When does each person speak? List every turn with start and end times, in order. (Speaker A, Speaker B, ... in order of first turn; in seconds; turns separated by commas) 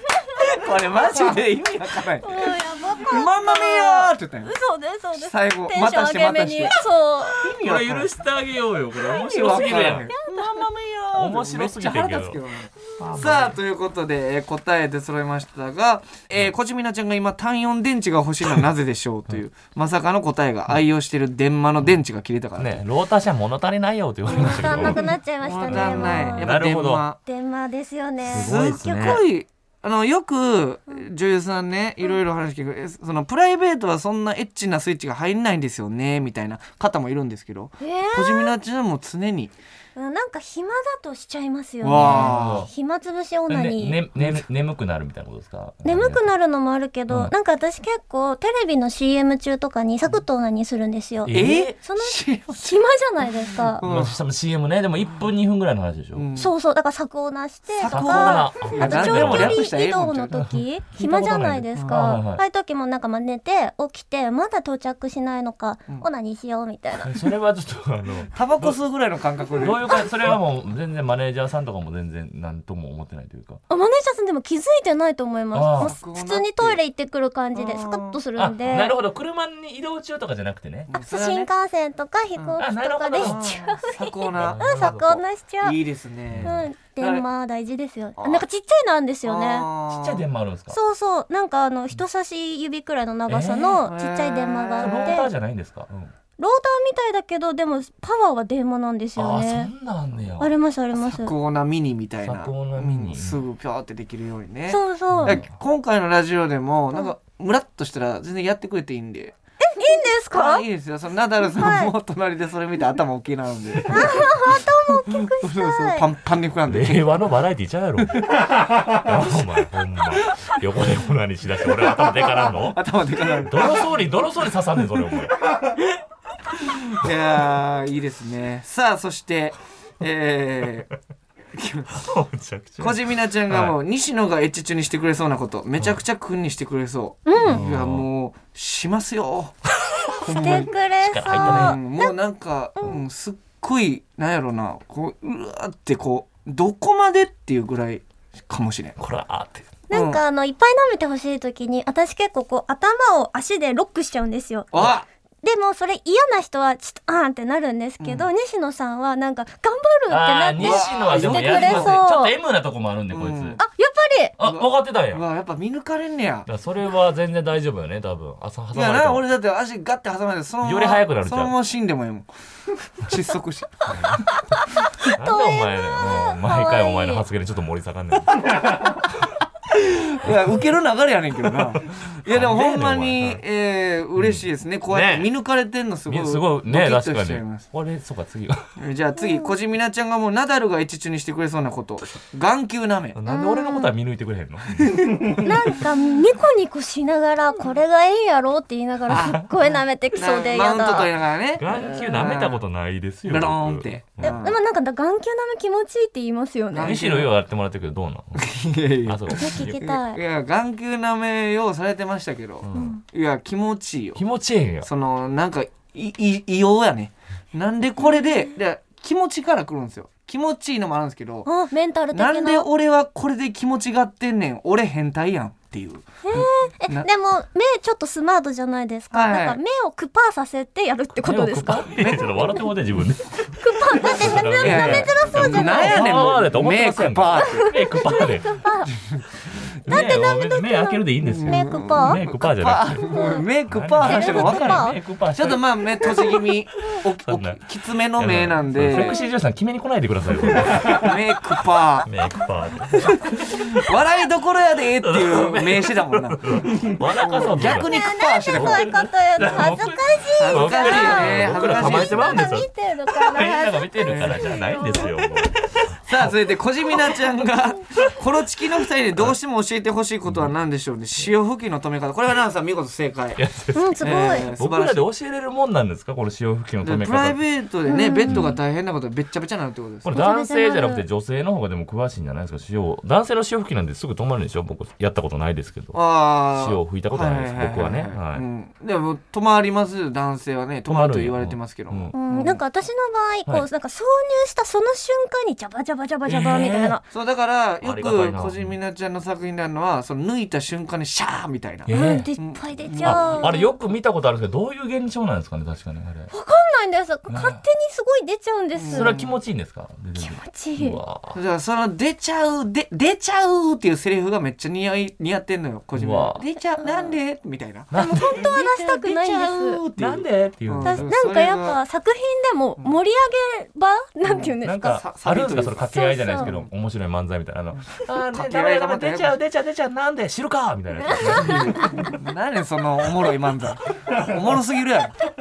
Speaker A: 0.4-4.5, Speaker B: 2.2-7.4, Speaker A: 5.1-6.8, Speaker A: 7.4-8.1, Speaker C: 7.4-10.1, Speaker A: 9.1-22.8, Speaker B: 10.2-10.6, Speaker C: 11.1-12.4, Speaker C: 13.0-13.6, Speaker C: 22.6-25.1, Speaker B: 24.3-26.6, Speaker A: 24.4-27.2, Speaker C: 25.7-27.1, Speaker B: 27.2-29.1, Speaker C: 28.2-29.2, Speaker A: 28.3-39.5, Speaker B: 37.8-38.5, Speaker B: 40.0-44.0, Speaker A: 41.8-42.7, Speaker C: 41.9-42.7, Speaker C: 43.5-46.3, Speaker A: 44.2-44.4, Speaker B: 45.8-53.8, Speaker C: 51.2-51.8, Speaker A: 51.3-52.8, Speaker A: 53.8-54.1, Speaker C: 53.8-56.3, Speaker A: 56.1-56.5, Speaker B: 56.4-67.2, Speaker A: 57.8-60.4, Speaker C: 57.9-59.6, Speaker C: 60.3-62.4, Speaker C: 67.0-68.8, Speaker A: 68.3-70.0, Speaker C: 69.5-73.6, Speaker B: 73.7-78.9, Speaker C: 75.5-75.9, Speaker A: 75.8-76.8, Speaker A: 77.5-78.2, Speaker C: 78.4-80.9, Speaker A: 80.9-81.5, Speaker B: 81.0-85.8, Speaker C: 82.6-83.4, Speaker A: 83.2-85.0, Speaker C: 84.3-85.2, Speaker A: 85.6-87.2, Speaker C: 86.3-86.7, Speaker B: 86.4-89.7, Speaker A: 88.2-88.5, Speaker A: 89.2-90.2, Speaker C: 89.9-90.8, Speaker B: 90.7-95.3, Speaker C: 93.3-93.8, Speaker A: 93.8-95.2, Speaker C: 94.8-96.1, Speaker B: 96.4-99.7, Speaker C: 99.2-100.5, Speaker B: 100.4-101.3, Speaker A: 100.9-109.3, Speaker C: 102.2-103.4, Speaker B: 104.7-105.4, Speaker C: 105.1-105.5, Speaker B: 109.7-110.7, Speaker A: 110.3-117.1, Speaker B: 111.5-111.9, Speaker B: 113.9-116.1, Speaker C: 116.7-118.3, Speaker A: 118.1-118.5, Speaker C: 118.9-122.8, Speaker A: 122.0-123.9, Speaker C: 123.4-125.3, Speaker A: 125.4-126.0, Speaker A: 126.5-130.9, Speaker A: 131.5-132.0, Speaker C: 131.9-133.8, Speaker A: 132.8-139.6, Speaker B: 137.3-137.6, Speaker C: 137.4-138.1, Speaker C: 139.8-140.1, Speaker A: 140.2-140.7, Speaker B: 140.2-142.1, Speaker C: 141.0-141.8, Speaker A: 141.3-149.0, Speaker C: 149.0-149.7, Speaker B: 149.9-154.7, Speaker A: 149.9-150.2, Speaker A: 154.7-155.1, Speaker B: 155.4-162.3, Speaker A: 158.0-158.3, Speaker C: 160.1-163.6, Speaker A: 160.6-162.0, Speaker A: 163.1-163.6, Speaker B: 163.6-164.3, Speaker C: 164.4-165.2, Speaker A: 164.4-166.5, Speaker C: 166.5-169.3, Speaker A: 168.7-172.3, Speaker C: 170.6-171.6, Speaker A: 172.9-174.2, Speaker C: 173.9-174.2, Speaker B: 174.8-177.2, Speaker C: 175.1-178.4, Speaker A: 178.4-179.0, Speaker A: 179.7-187.7, Speaker C: 180.2-180.6, Speaker C: 181.5-183.4, Speaker C: 184.2-185.3, Speaker C: 186.1-188.7, Speaker A: 188.8-193.2, Speaker B: 189.2-189.5, Speaker C: 193.2-195.4, Speaker B: 193.3-193.9, Speaker A: 194.8-195.5, Speaker B: 195.4-201.1, Speaker A: 199.1-202.6, Speaker C: 199.1-199.4, Speaker C: 201.6-204.4, Speaker B: 201.7-202.1, Speaker A: 203.3-204.6, Speaker B: 204.2-207.0, Speaker A: 206.7-207.3, Speaker C: 206.8-208.4, Speaker A: 208.4-214.2, Speaker C: 209.1-209.9, Speaker B: 209.4-210.2, Speaker C: 212.6-213.0, Speaker B: 212.7-213.0, Speaker C: 214.2-214.9, Speaker A: 214.8-221.5, Speaker B: 218.1-218.4, Speaker B: 221.5-222.7, Speaker A: 222.1-227.1, Speaker B: 226.2-231.9, Speaker A: 229.1-229.6, Speaker C: 231.2-238.7, Speaker A: 231.9-232.7, Speaker B: 233.6-236.3, Speaker A: 234.6-238.2, Speaker B: 237.6-238.9, Speaker A: 238.9-239.9, Speaker C: 239.8-243.1, Speaker B: 239.9-242.2, Speaker A: 241.2-249.2, Speaker B: 243.1-243.5, Speaker C: 243.7-246.3, Speaker B: 244.0-245.0, Speaker C: 247.3-247.6, Speaker C: 248.2-251.2, Speaker A: 250.8-252.1, Speaker C: 252.1-253.8, Speaker A: 253.0-258.9, Speaker C: 255.0-258.0, Speaker B: 257.6-265.3, Speaker C: 258.5-266.3, Speaker A: 260.4-262.5, Speaker A: 264.1-264.4, Speaker A: 266.0-273.4, Speaker C: 270.3-270.5, Speaker C: 273.4-277.4, Speaker B: 273.8-274.5, Speaker A: 274.0-275.1, Speaker A: 276.8-280.2, Speaker B: 277.9-278.6, Speaker C: 278.3-278.6, Speaker C: 280.0-286.0, Speaker B: 280.1-281.0, Speaker A: 285.9-292.6, Speaker C: 286.6-288.4, Speaker C: 290.9-292.1, Speaker B: 292.1-297.0, Speaker C: 296.3-297.0, Speaker A: 297.1-303.5, Speaker C: 297.8-298.8, Speaker C: 301.9-302.3, Speaker B: 301.9-303.7, Speaker C: 303.0-306.3, Speaker B: 306.3-309.2, Speaker C: 307.3-307.6, Speaker A: 308.8-309.3, Speaker C: 308.9-311.4, Speaker B: 310.2-311.0, Speaker A: 311.3-321.8, Speaker C: 316.0-316.4, Speaker B: 316.8-317.1, Speaker C: 317.9-318.5, Speaker B: 318.0-319.8, Speaker C: 320.0-321.1, Speaker B: 320.8-325.0, Speaker A: 324.3-326.7, Speaker C: 324.6-332.1, Speaker B: 325.9-326.5, Speaker A: 328.1-329.3, Speaker B: 331.1-331.9, Speaker A: 331.4-335.2